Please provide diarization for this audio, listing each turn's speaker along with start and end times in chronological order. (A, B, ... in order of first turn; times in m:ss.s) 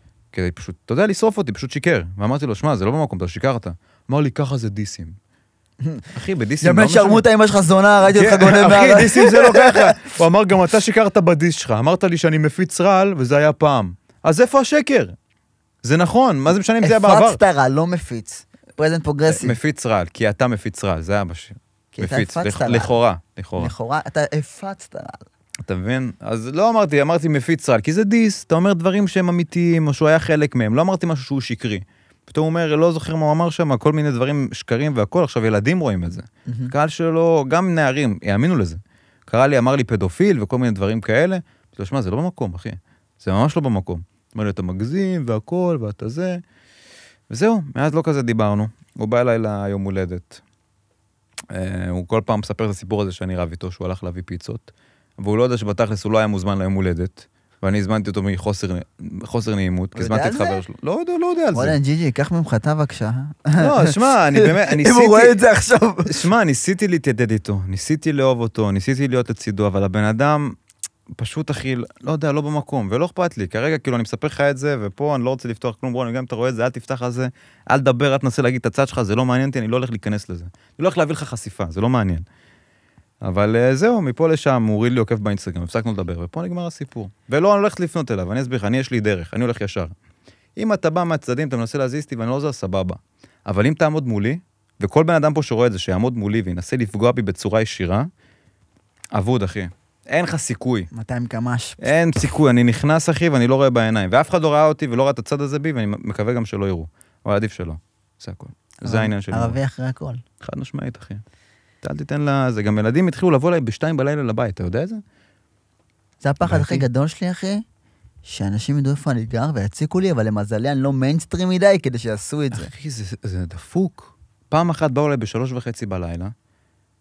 0:00.3-0:05.2 A
0:05.8-0:06.1 B
0:06.1-0:07.2 A
0:06.6-0:09.9 B
0:08.1-0:15.1 A
0:15.8-0:17.4 A
0:16.8-0:19.6 B
0:19.3-0:23.7 A
0:21.9-0:23.0 B
0:23.6-0:25.2 B
0:25.6-0:46.4 A
0:36.5-0:36.7 B
0:47.3-0:50.4 A
0:51.5-1:01.8 A
1:00.0-1:00.6 B
1:01.5-1:06.2 B
1:03.6-1:05.4 A
1:06.1-1:10.6 A
1:11.1-1:22.2 A
1:23.2-1:30.0 A
1:30.6-1:38.1 A
1:39.1-1:40.9 A
1:40.9-1:41.9 B
1:41.8-1:49.6 A
1:48.8-1:50.2 B
1:50.4-1:51.2 A
1:51.8-1:55.0 A
1:56.2-1:57.6 B
1:56.4-1:56.8 A
1:58.2-2:02.7 B
2:02.5-2:06.3 A